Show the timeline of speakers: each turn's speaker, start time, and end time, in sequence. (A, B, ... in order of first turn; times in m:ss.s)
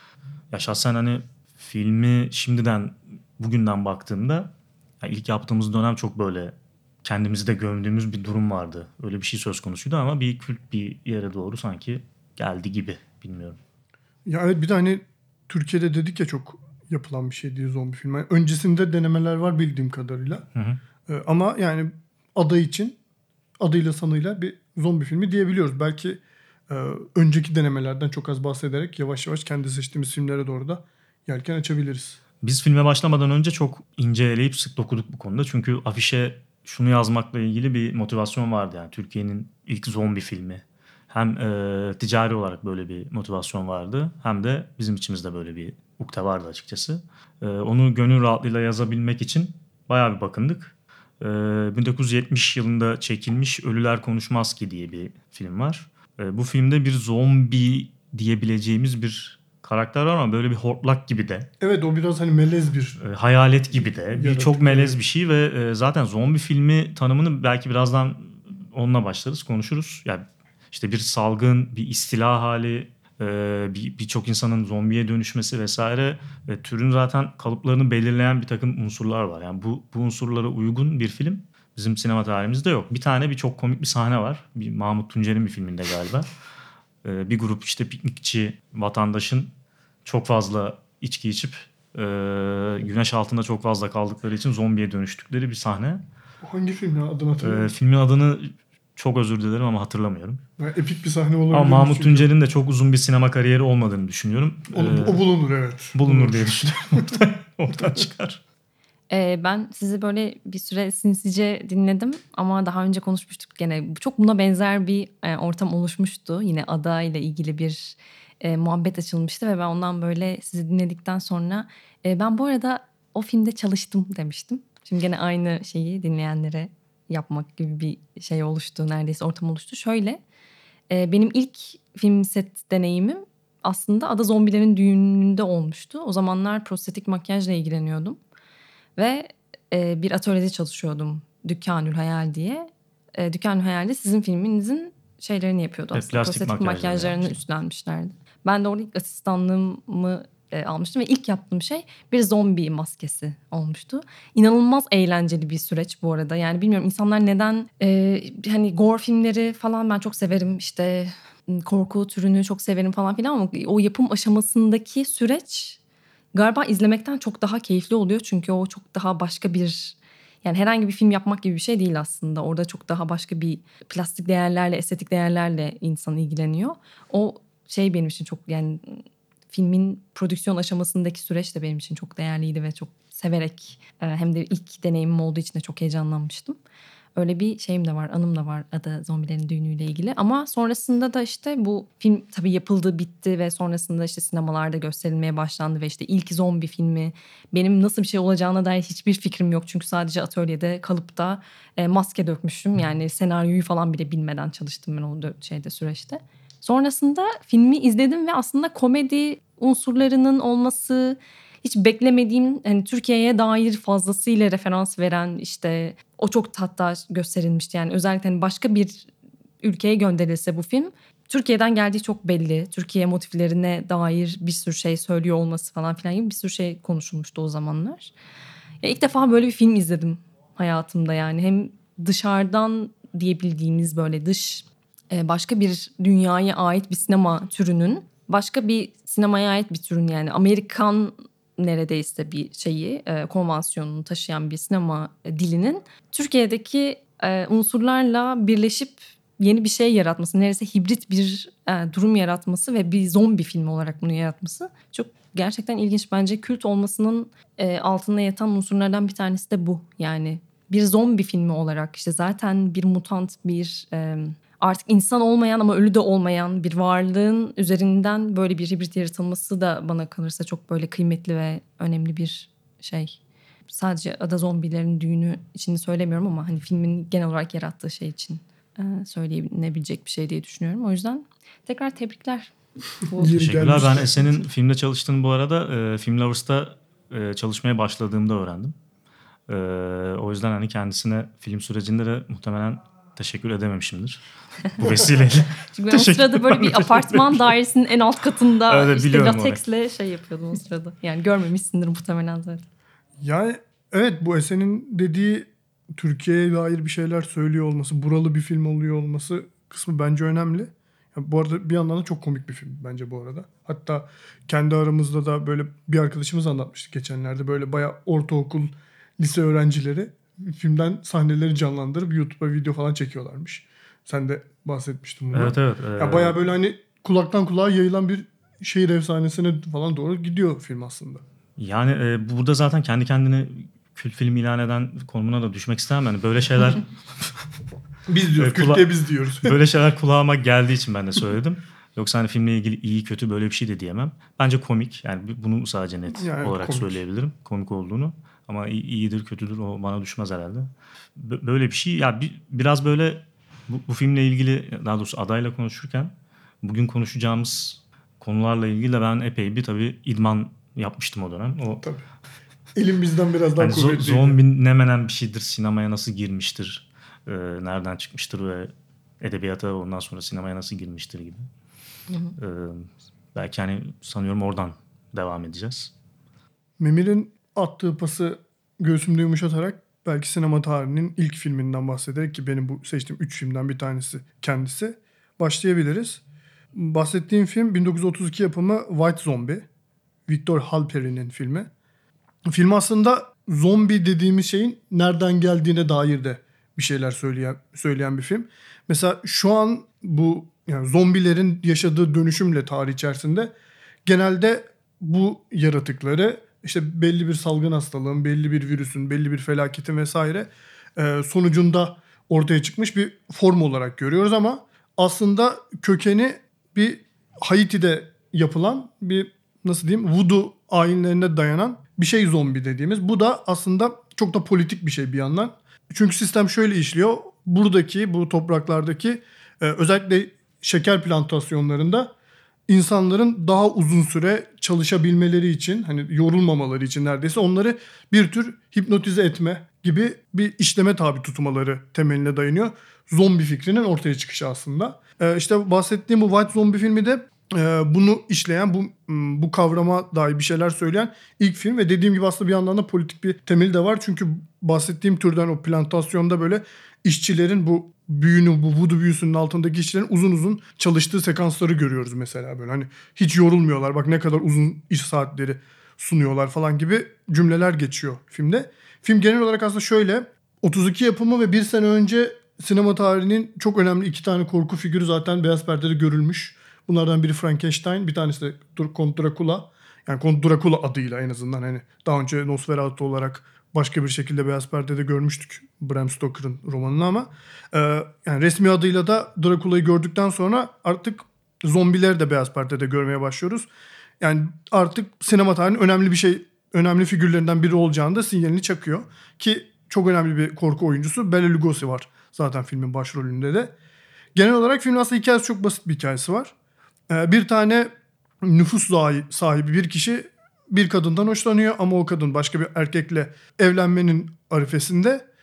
0:00.5-0:13.6 A
0:14.2-0:20.4 B
0:20.5-0:20.8 A
0:21.1-0:23.0 B
0:23.6-0:32.2 B
0:32.4-1:01.5 A
1:01.6-1:03.0 B
1:03.0-1:26.3 A
1:04.1-1:05.0 B
1:27.0-1:29.5 A
1:30.0-1:36.0 A
1:36.4-1:37.7 B
1:37.4-1:40.4 A
1:40.6-1:42.3 B
1:41.5-1:45.3 A
1:44.7-1:47.2 B
1:45.9-1:48.4 A
1:49.1-2:10.2 C
2:10.9-2:18.2 C
2:19.0-2:45.8 C
2:25.9-2:27.4 A
2:46.3-3:06.6 C
3:07.2-3:39.1 C
3:39.6-3:48.1 C
3:48.8-4:42.5 C
4:43.1-4:43.3 C
4:43.1-4:44.4 B
4:43.3-4:48.7 A
4:49.5-4:57.5 A
4:55.7-5:02.6 C
4:58.7-4:59.6 A
5:03.2-5:31.2 B
5:25.3-5:26.3 A
5:31.6-5:36.8 A
5:38.1-5:39.6 B
5:38.4-6:01.8 A
5:46.1-5:47.0 B
6:02.7-6:04.4 B
6:03.6-6:11.5 A
6:12.4-6:15.9 A
6:16.8-6:26.2 B
6:26.7-6:29.6 B
6:30.3-6:31.7 B
6:32.5-6:43.5 B
6:44.0-7:12.1 B
7:12.7-8:13.7 B
8:14.2-8:23.7 B
8:24.3-8:26.5 B
8:27.1-8:27.9 B
8:28.4-8:35.2 B